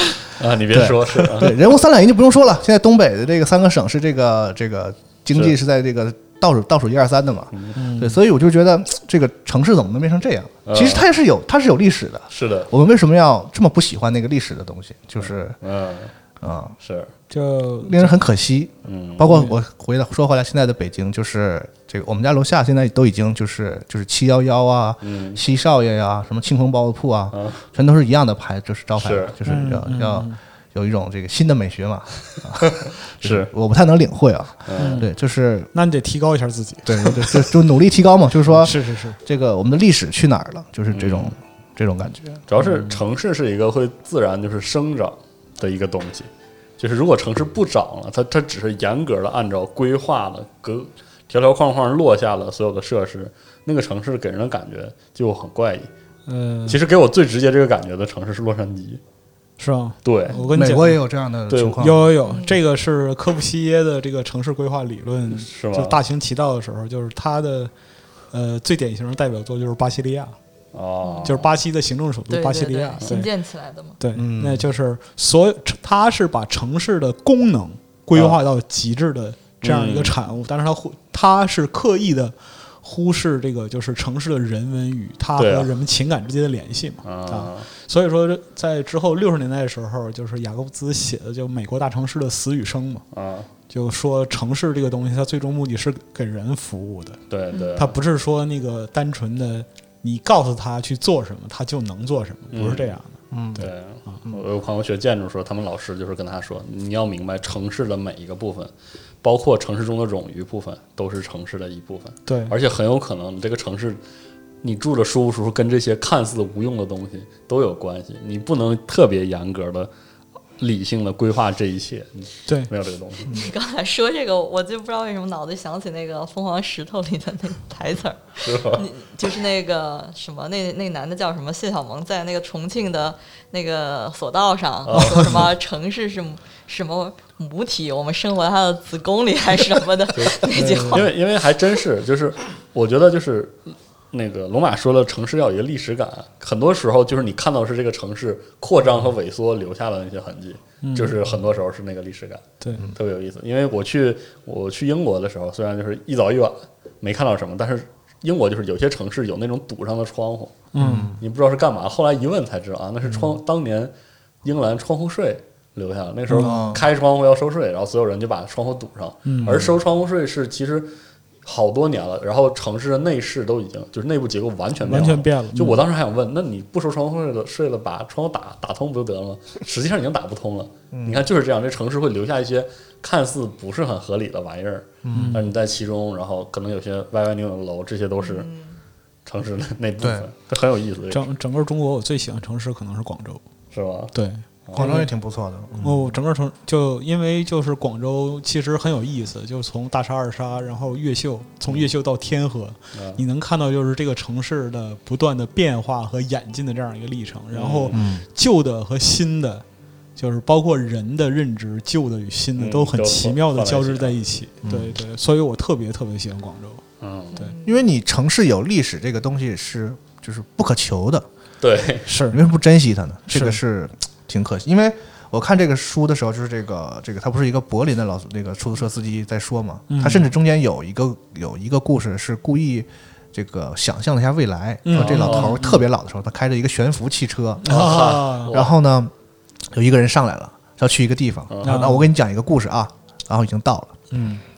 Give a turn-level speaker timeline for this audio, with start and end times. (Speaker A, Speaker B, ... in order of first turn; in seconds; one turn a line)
Speaker A: 0.4-1.6
Speaker B: 0.7-15.6
Speaker C: 7.8-8.2
Speaker A: 10.7-11.1
Speaker A: 12.3-12.7
Speaker A: 15.2-16.1
Speaker B: 16.4-16.7
Speaker A: 16.8-17.1
Speaker C: 17.3-18.1
Speaker B: 17.8-35.7
Speaker A: 18.9-19.4
Speaker A: 25.0-25.4
Speaker A: 27.3-27.6
Speaker A: 29.0-29.4
Speaker C: 29.4-30.4
Speaker A: 32.6-33.5
Speaker A: 34.7-35.0
Speaker C: 34.8-35.1
Speaker C: 35.7-37.4
Speaker B: 36.9-42.4
Speaker C: 38.5-39.2
Speaker A: 40.9-41.3
Speaker A: 42.5-55.9
Speaker C: 56.3-56.8
Speaker A: 56.7-59.0
Speaker C: 59.6-61.0
Speaker A: 60.0-60.4
Speaker B: 60.5-62.1
Speaker A: 61.5-61.9
Speaker C: 61.8-67.7
Speaker D: 62.2-62.6
Speaker A: 65.3-66.0
Speaker C: 68.3-70.4
Speaker A: 70.7-71.5
Speaker D: 71.0-71.5
Speaker C: 71.2-73.3
Speaker D: 72.3-74.0
Speaker C: 74.0-93.0
Speaker B: 74.1-74.7
Speaker A: 79.6-80.1
Speaker A: 85.4-85.7
Speaker A: 87.0-87.7
Speaker A: 93.1-93.5
Speaker C: 93.7-97.2
Speaker A: 97.3-97.9
Speaker D: 97.5-97.8
Speaker C: 97.8-103.7
Speaker A: 102.5-103.0
Speaker B: 103.3-103.6
Speaker A: 103.6-108.7
Speaker A: 109.2-114.0
Speaker C: 112.3-112.5
Speaker A: 114.6-119.9
Speaker A: 120.6-123.4
Speaker D: 123.3-141.1
Speaker A: 128.4-128.8
Speaker A: 134.8-135.6
Speaker A: 140.1-163.9
Speaker C: 140.5-141.0
Speaker C: 150.8-151.2
Speaker C: 160.7-161.1
Speaker B: 160.8-161.2
Speaker A: 164.4-170.9
Speaker C: 166.3-166.6
Speaker B: 166.4-166.8
Speaker C: 169.2-169.7
Speaker A: 171.4-188.5
Speaker C: 174.8-175.8
Speaker B: 180.9-181.2
Speaker B: 185.0-185.4
Speaker C: 185.1-185.5
Speaker D: 188.2-188.7
Speaker A: 189.3-191.2
Speaker B: 190.0-190.3
Speaker C: 191.1-193.4
Speaker A: 193.7-194.1
Speaker C: 194.1-195.1
Speaker A: 194.7-194.9
Speaker B: 194.7-196.1
Speaker C: 195.8-209.6
Speaker A: 202.9-203.2
Speaker A: 207.5-208.1
Speaker B: 207.9-208.2
Speaker C: 210.2-216.8
Speaker A: 212.6-214.2
Speaker B: 214.6-214.9
Speaker A: 217.0-217.4
Speaker D: 217.3-217.8
Speaker B: 217.6-221.3
Speaker A: 221.6-222.1
Speaker C: 222.1-222.4
Speaker B: 222.3-237.9
Speaker C: 223.3-223.6
Speaker C: 229.9-230.3
Speaker C: 234.8-235.8
Speaker A: 234.9-235.6
Speaker C: 237.6-238.5
Speaker A: 237.7-238.7
Speaker B: 238.5-239.1
Speaker B: 239.7-243.9
Speaker A: 241.5-241.8
Speaker C: 241.6-242.1
Speaker C: 244.1-244.4